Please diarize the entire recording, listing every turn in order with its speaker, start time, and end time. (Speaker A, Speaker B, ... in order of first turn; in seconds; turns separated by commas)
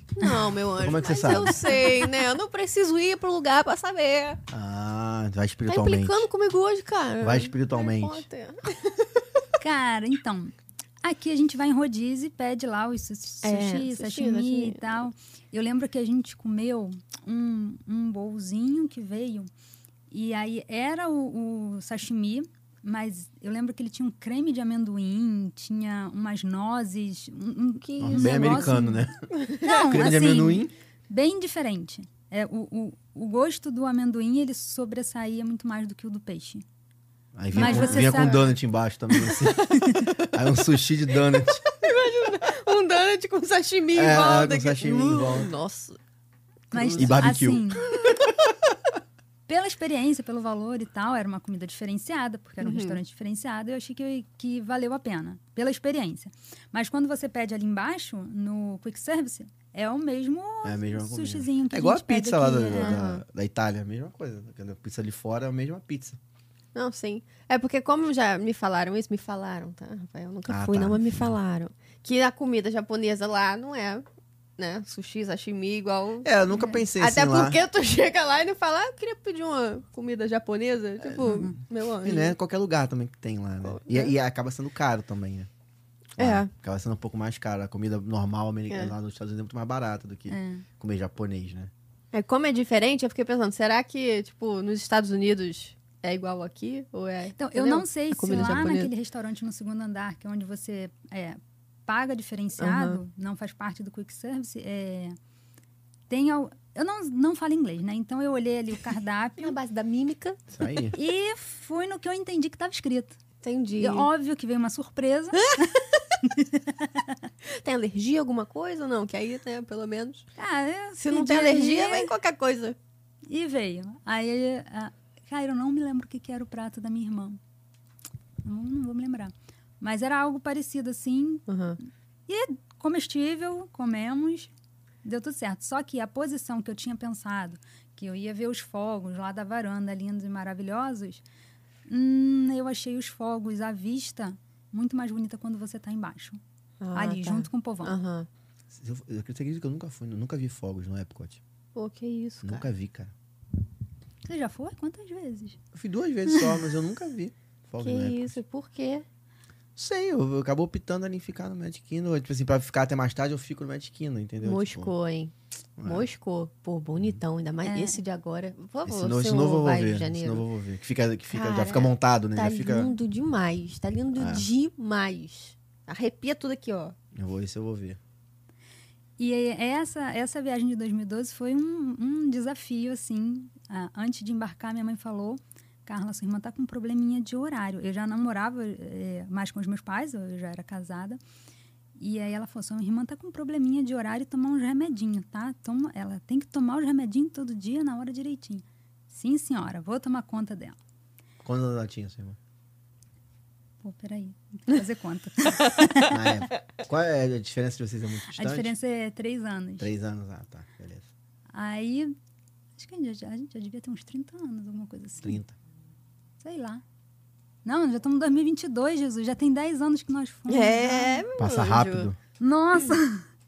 Speaker A: 0.1-4.4, Speaker B: 0.8-1.8, Speaker B: 4.5-6.2, Speaker A: 5.7-9.2, Speaker B: 7.2-8.2, Speaker C: 9.6-19.5, Speaker A: 13.4-15.0, Speaker C: 20.1-29.1, Speaker A: 27.9-28.8, Speaker B: 28.0-30.7, Speaker C: 29.6-36.6, Speaker B: 37.3-41.7, Speaker C: 37.5-38.5, Speaker A: 37.5-38.5, Speaker A: 39.2-40.1, Speaker C: 39.8-40.1, Speaker A: 41.6-46.0, Speaker B: 43.9-45.5, Speaker C: 46.7-47.9, Speaker A: 46.8-47.3, Speaker B: 46.8-48.5, Speaker C: 49.5-63.0, Speaker A: 52.6-53.0, Speaker B: 60.6-66.2, Speaker A: 62.7-63.2, Speaker A: 66.7-74.0, Speaker B: 70.5-71.3, Speaker A: 74.6-76.3, Speaker B: 76.2-77.6, Speaker C: 76.5-76.8, Speaker A: 76.9-82.3, Speaker B: 81.1-81.4, Speaker C: 81.2-81.6, Speaker B: 82.0-85.5, Speaker A: 83.7-84.1, Speaker A: 86.2-86.5, Speaker B: 86.2-91.7, Speaker C: 90.3-90.6, Speaker A: 92.1-98.9, Speaker C: 97.4-105.2, Speaker B: 98.3-98.7, Speaker A: 102.6-103.0, Speaker C: 106.1-109.5, Speaker A: 109.4-110.5, Speaker B: 110.5-111.0, Speaker C: 110.9-113.2, Speaker A: 113.4-114.1, Speaker C: 113.8-117.1, Speaker A: 115.4-115.8, Speaker A: 117.5-120.2, Speaker C: 120.4-122.1, Speaker A: 121.0-122.8, Speaker C: 123.3-127.4, Speaker C: 128.4-131.4, Speaker A: 131.5-131.8, Speaker C: 132.3-134.5, Speaker C: 135.0-141.2, Speaker C: 141.9-146.4, Speaker A: 146.8-148.3, Speaker C: 146.9-148.0, Speaker B: 148.7-151.4, Speaker A: 151.7-152.6, Speaker B: 152.4-153.1, Speaker C: 154.2-155.6, Speaker B: 155.7-158.4, Speaker C: 156.3-156.6, Speaker A: 157.8-159.0, Speaker B: 159.8-164.9, Speaker A: 164.4-170.4, Speaker B: 165.8-166.1, Speaker C: 167.6-168.0, Speaker B: 168.8-172.9, Speaker A: 171.3-176.9, Speaker B: 174.2-174.5, Speaker B: 177.1-178.0, Speaker C: 179.2-191.2, Speaker C: 192.0-200.8, Speaker B: 201.4-202.4, Speaker C: 203.8-206.5, Speaker B: 206.1-208.7, Speaker C: 208.3-209.9, Speaker B: 209.8-211.1, Speaker C: 211.5-212.1, Speaker C: 212.8-215.4, Speaker B: 215.2-215.5, Speaker C: 216.4-216.8, Speaker C: 217.6-221.2, Speaker A: 220.5-222.1, Speaker B: 221.4-222.2, Speaker C: 222.4-223.2